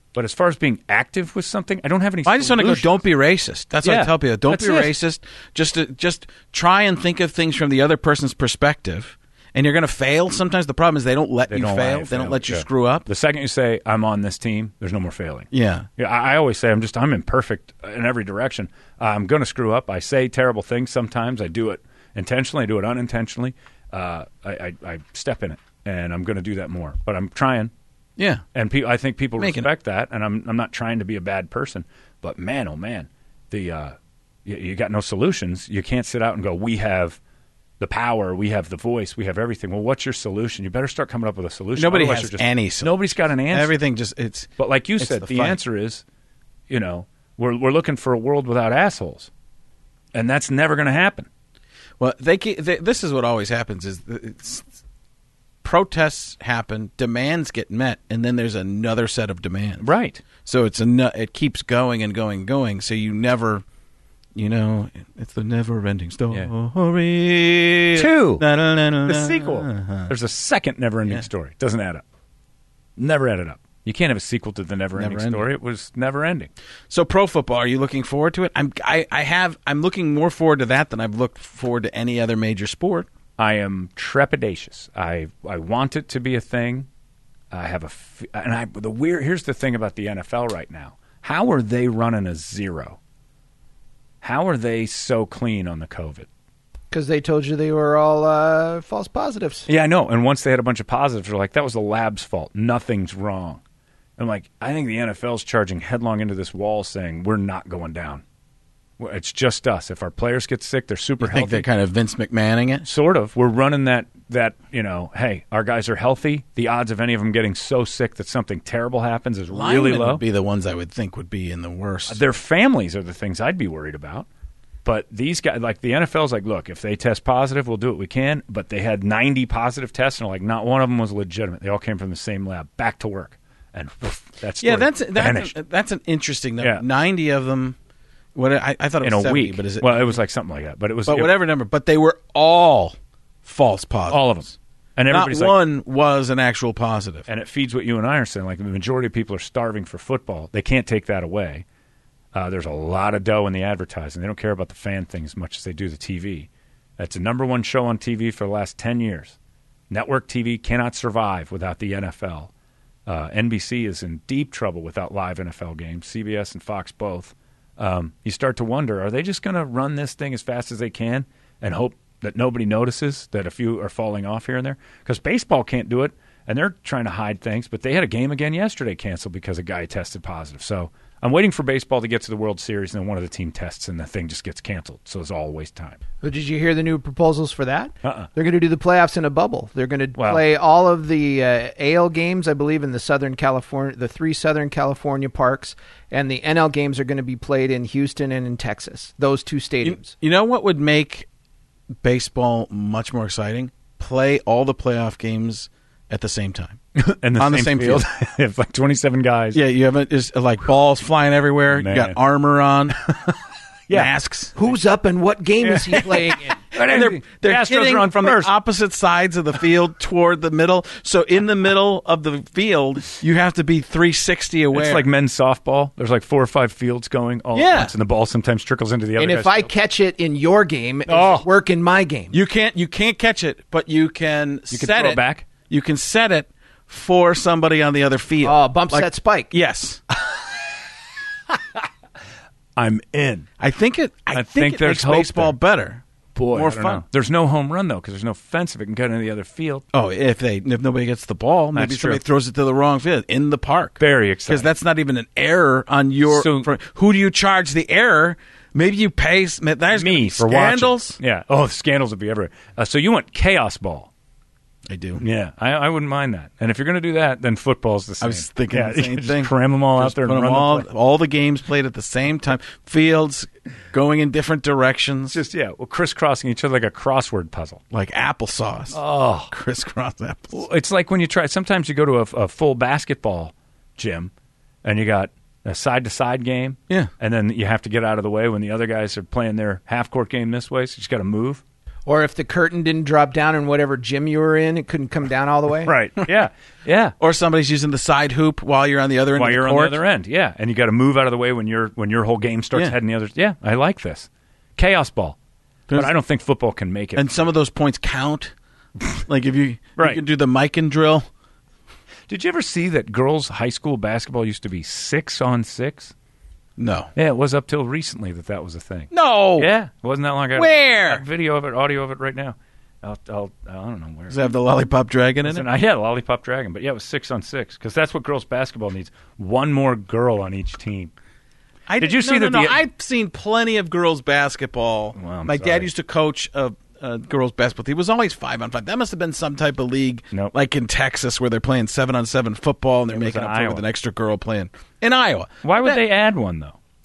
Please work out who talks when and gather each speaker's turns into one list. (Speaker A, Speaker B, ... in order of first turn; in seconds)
Speaker A: 0.1-3.0, 3.8-4.9, 11.5-27.7, 28.5-37.2, 37.8-43.8, 44.6-46.0, 46.7-49.3, 50.1-51.3, 59.8-60.2, 67.9-68.4, 69.0-72.0, 73.0-76.5, 83.4-86.9, 87.5-93.0, 94.2-96.3, 99.7-103.6, 104.2-108.2, 109.0-111.7, 112.8-120.2, 122.1-124.3, 124.8-135.5, 139.0-141.3, 144.1-145.6, 147.3-151.6, 152.3-159.3, 159.9-162.5, 163.1-186.0, 188.0-188.3, 190.2-190.4, 206.9-209.6, 211.7-212.2, 213.0-214.1, 215.6-218.5, 224.7-229.7, 231.1-231.4, 234.7-235.4, 242.8-243.5, 244.3-245.5, 246.3-249.8, 251.7-252.2, 254.0-254.7, 256.3-256.7, 259.9-264.1, 265.2-270.9, 275.3-277.8, 278.9-279.5, 280.5-284.3, 284.8-291.6, 295.8-297.1, 299.3-305.4, 305.9-307.5, 312.3-316.1, 317.1-324.5, 325.4-331.1, 332.0-332.8, 335.1-335.9, 343.1-343.8, 345.6-346.8
Speaker B: 2.2-13.1, 15.5-15.9, 28.2-28.4, 29.4-29.7, 41.8-45.6, 52.0-54.7, 55.6-59.9, 60.4-63.6, 64.3-70.1, 74.9-75.5, 76.9-83.1, 111.2-112.9, 119.5-122.2, 134.6-137.8, 138.3-140.2, 141.1-144.5, 145.1-147.3, 199.8-201.2, 202.0-206.8, 207.4-208.0, 209.5-213.0, 213.9-214.7, 216.7-225.0, 227.5-227.9, 232.3-240.0, 243.6-247.0, 249.9-261.2, 264.9-265.2, 268.2-275.4, 277.9-280.6, 297.2-300.0, 305.9-306.1, 307.1-308.5, 309.1-311.3, 316.8-317.1, 319.1-319.7, 320.5-321.2, 324.3-325.6, 331.9-346.0
Speaker C: 96.9-99.7, 186.2-200.1, 214.5-216.6, 229.2-232.3, 238.4-239.5, 292.1-295.9